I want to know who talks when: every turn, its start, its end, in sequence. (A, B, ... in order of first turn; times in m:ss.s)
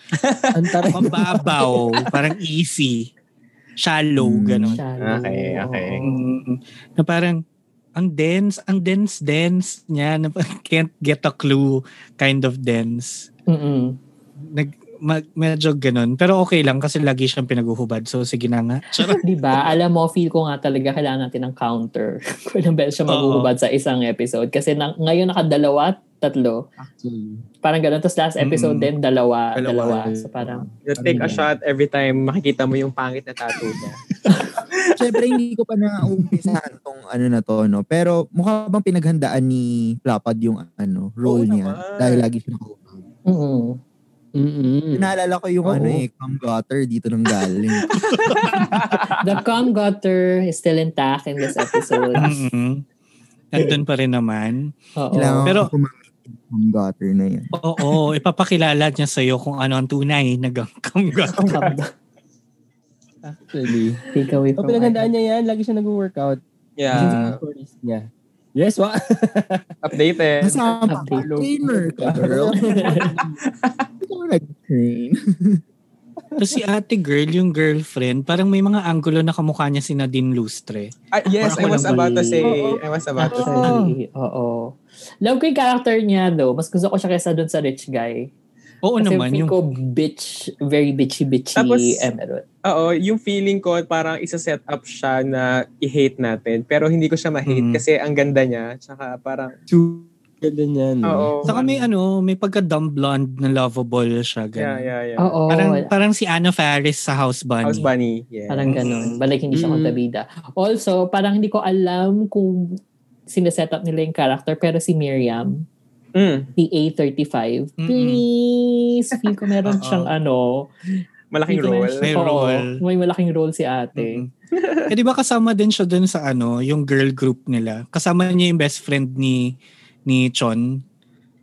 0:00.2-0:01.8 A
0:00.5-0:01.4 B
0:00.9-0:03.1 C
0:03.8-0:04.8 C
0:04.2-0:04.8 D
0:04.7-0:06.2 E
0:05.0-0:06.0 A
0:06.0-0:07.4 C
0:08.0-0:13.3 C
0:13.5-0:14.0 E
0:14.4-0:19.2 C
0:19.2-0:26.6 E
0:23.1-0:23.5 C
0:26.8-0:27.4 B
0:27.6-0:31.4 E
0:28.4-0:28.9 C
0:29.6-0:31.5 B
0:30.8-0:34.0 A
0:35.0-0:43.0 D
0:41.2-0:42.2 A
0:43.3-0:43.8 E
0:44.3-0:45.1 B
0:44.9-0:47.9 D
0:45.6-0:46.0 B
0:47.9-0:49.1 A
0:48.2-0:48.4 C
0:49.2-0:52.3 E
0:52.2-0:52.8 C
0:53.5-0:54.7 C
0:55.0-0:55.5 E
0:55.1-0:57.5 D
0:55.4-0:55.7 C
0:57.5-1:01.6 C
1:01.2-1:01.8 A
1:01.5-1:01.9 E
1:03.2-1:04.0 B
1:04.1-1:05.1 E
1:04.6-1:06.4 B
1:06.8-1:07.4 A
1:06.9-1:08.0 B
1:08.6-1:09.8 B
1:09.8-1:13.1 A
1:10.4-1:12.6 D
1:10.9-1:11.3 E
1:11.6-1:13.4 B
1:12.7-1:13.1 E
1:14.0-1:15.6 D
1:16.4-1:22.1 C
1:21.1-1:23.8 A
1:21.5-1:22.6 E
1:22.4-1:23.8 B
1:23.2-1:28.3 E
1:23.4-1:24.0 C
1:28.8-1:29.6 C
1:29.0-1:32.4 E
1:31.5-1:32.0 A
1:32.6-1:39.5 A
1:37.4-1:37.8 C
1:39.7-1:41.6 B
1:41.0-1:41.7 A
1:41.4-1:44.9 C
1:44.6-1:45.4 A
1:45.2-1:45.9 E
1:45.5-1:47.9 C
1:47.6-1:49.2 A
1:48.5-1:52.8 E
1:48.6-1:49.1 C
1:49.5-1:50.0 B
1:53.3-1:55.6 E
1:56.1-1:56.5 A
1:56.6-2:00.7 E
1:57.8-1:58.2 C
1:59.6-2:00.1 C
2:01.3-2:02.0 A
2:01.5-2:04.2 E
2:02.0-2:02.8 C
2:04.0-2:04.3 C
2:04.5-2:04.9 A
2:04.9-2:10.8 C